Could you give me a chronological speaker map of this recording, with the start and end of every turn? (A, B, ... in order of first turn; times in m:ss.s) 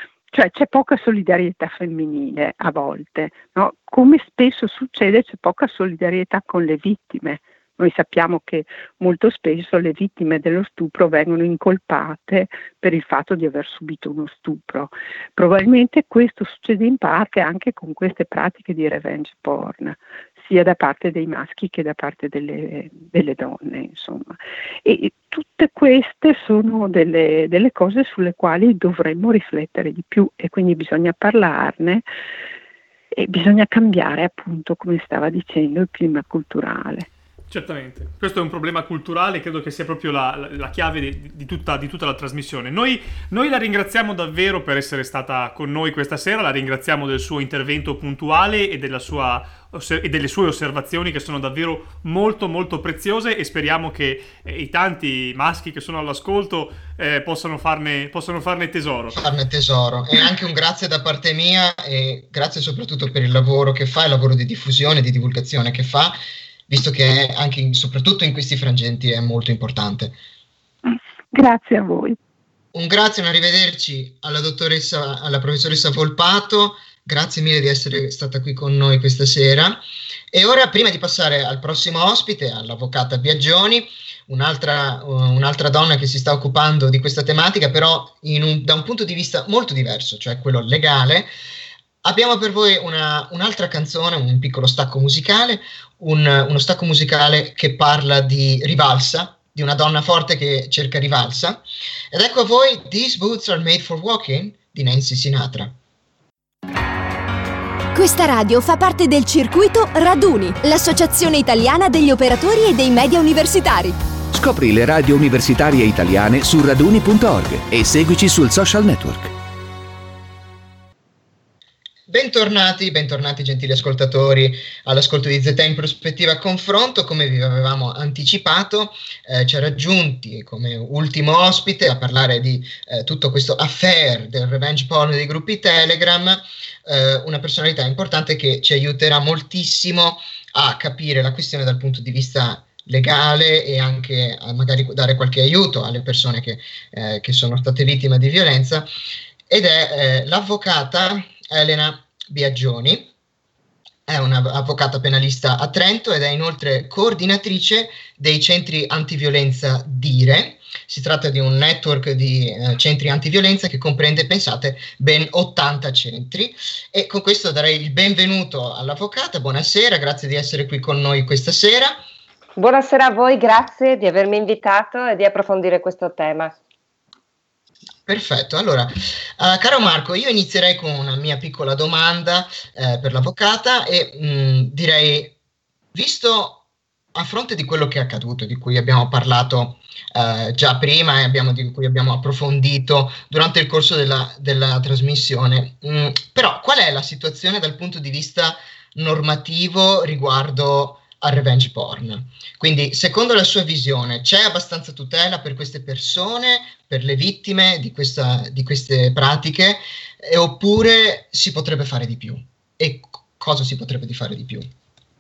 0:00.3-0:32.0 A
0:33.1-0:37.1 A
0:37.5-0:59.2 B
0:59.1-1:06.2 C
1:06.7-1:10.1 C
1:10.9-1:12.2 A
1:12.7-1:31.3 C
1:32.0-1:45.7 C
1:47.9-1:54.0 D
1:54.3-1:59.3 E
2:02.1-2:28.9 C
2:29.5-2:33.1 C
2:34.1-2:52.0 C
2:52.6-2:56.5 F
2:58.0-3:05.4 C
3:05.9-3:06.6 C
3:07.1-3:34.7 C